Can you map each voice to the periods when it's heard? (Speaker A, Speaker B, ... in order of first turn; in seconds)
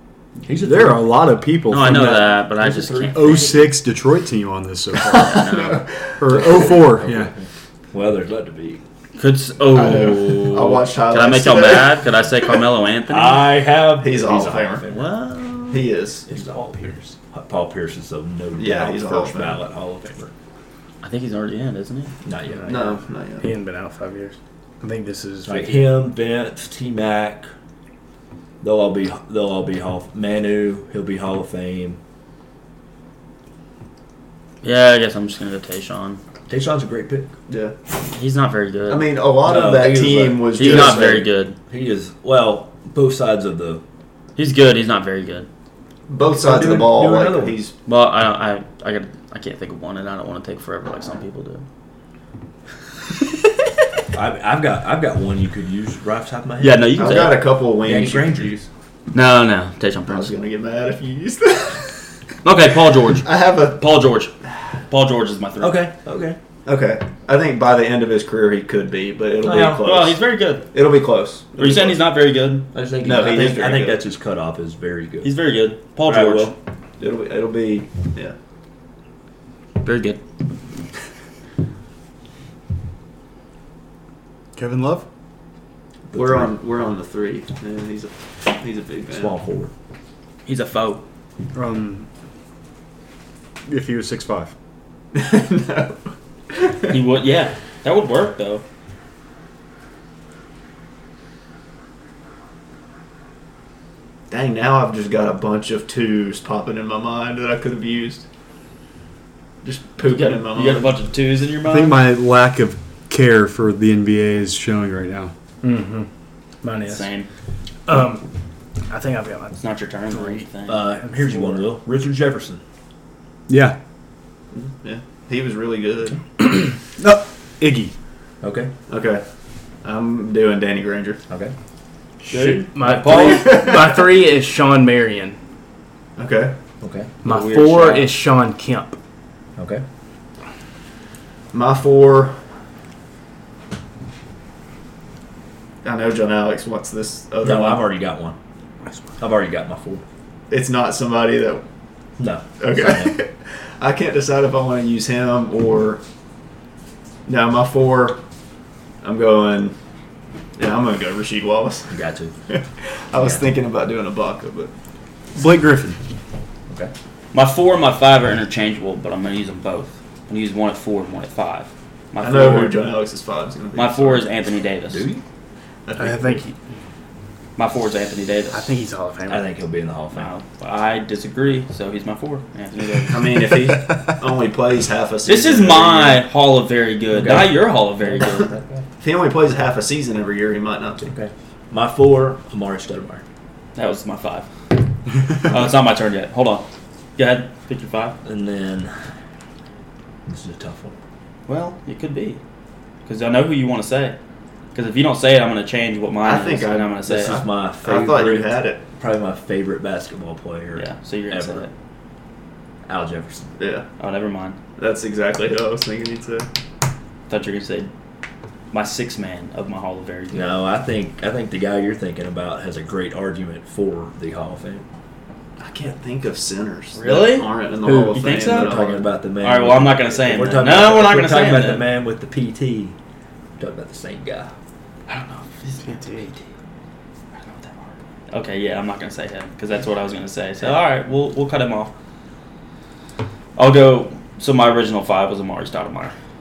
Speaker A: 0.4-1.2, 2.6-3.2, 6.3-8.8, 13.1-15.1, 16.3-20.3, 22.2-22.9, 25.4-27.5, 28.6-32.0, 36.5-37.3, 39.4-43.8, 46.3-47.6, 54.1-57.1, 57.8-58.6, 65.6-66.4, 69.4-69.8, 72.7-75.3, 76.0-76.5, 86.1-86.5, 89.1-89.7, 120.7-122.6, 128.4-128.7, 131.3-131.5, 133.0-133.4, 136.8-137.1, 139.6-139.8, 147.4-148.3, 149.2-150.0, 152.2-153.1, 161.9-162.3, 163.1-163.5, 174.9-175.2, 179.3-180.3, 187.1-188.8, 191.0-193.2, 198.2-198.9, 200.2-201.0, 207.1-211.7, 212.9-213.5, 220.3-224.8, 228.4-232.9, 233.6-234.5
Speaker B: 0.6-5.5, 6.2-7.3, 84.5-85.0, 91.5-92.1, 93.7-94.5, 111.6-115.3, 123.5-123.8, 127.0-127.9, 165.3-166.0
Speaker C: 1.7-3.6, 5.1-5.8, 9.2-13.6, 14.9-15.8, 21.0-22.1, 34.6-36.2, 38.1-39.1, 40.5-41.5, 44.4-45.5, 47.9-51.6, 56.6-57.4, 59.1-60.3, 62.4-64.3, 64.9-65.9, 69.8-70.7, 71.5-72.7, 75.2-76.5, 79.8-80.2, 90.4-91.0, 96.9-98.6, 110.0-112.0, 116.9-117.3, 119.6-120.9, 132.2-133.6, 137.2-138.1, 167.3-173.0, 173.7-175.1, 177.6-178.7, 180.1-183.2, 185.2-188.5, 193.7-194.5, 195.4-196.7, 197.2-198.2, 201.5-202.4, 203.0-204.2, 204.7-207.4, 210.7-211.7, 214.0-214.6, 217.3-217.9, 218.7-220.6, 226.9-228.8, 229.4-231.8, 235.1-236.4, 237.3-241.9, 243.6-246.1
Speaker D: 5.0-6.6, 9.7-12.0, 14.0-14.8, 15.7-16.3, 18.6-19.6, 22.6-23.5, 37.5-37.7, 38.9-41.3, 46.1-47.7, 57.0-58.7, 60.1-61.9, 63.2-63.8, 66.7-70.2, 70.7-72.0, 73.0-74.0, 77.0-78.3, 86.1-89.3, 95.1-96.0, 96.5-96.9, 104.3-108.2, 109.6-110.9, 124.5-126.2, 128.9-129.2, 129.8-131.2, 133.1-134.0, 136.2-136.5, 141.5-142.3, 145.8-147.9, 150.5-151.6, 152.6-156.0, 157.2-158.2, 159.0-159.7, 160.6-161.9, 162.5-164.7, 172.2-174.3, 175.8-176.4, 183.1-186.2, 189.0-191.1, 206.2-208.8, 213.6-213.8, 214.8-216.5, 225.6-229.1
Speaker E: 22.5-26.1, 115.6-116.1, 116.6-117.1, 117.9-118.3, 118.9-119.6, 120.1-120.4, 121.0-121.4, 132.4-135.4, 137.2-139.0, 176.0-176.6, 178.5-179.5, 227.8-228.2, 235.8-236.4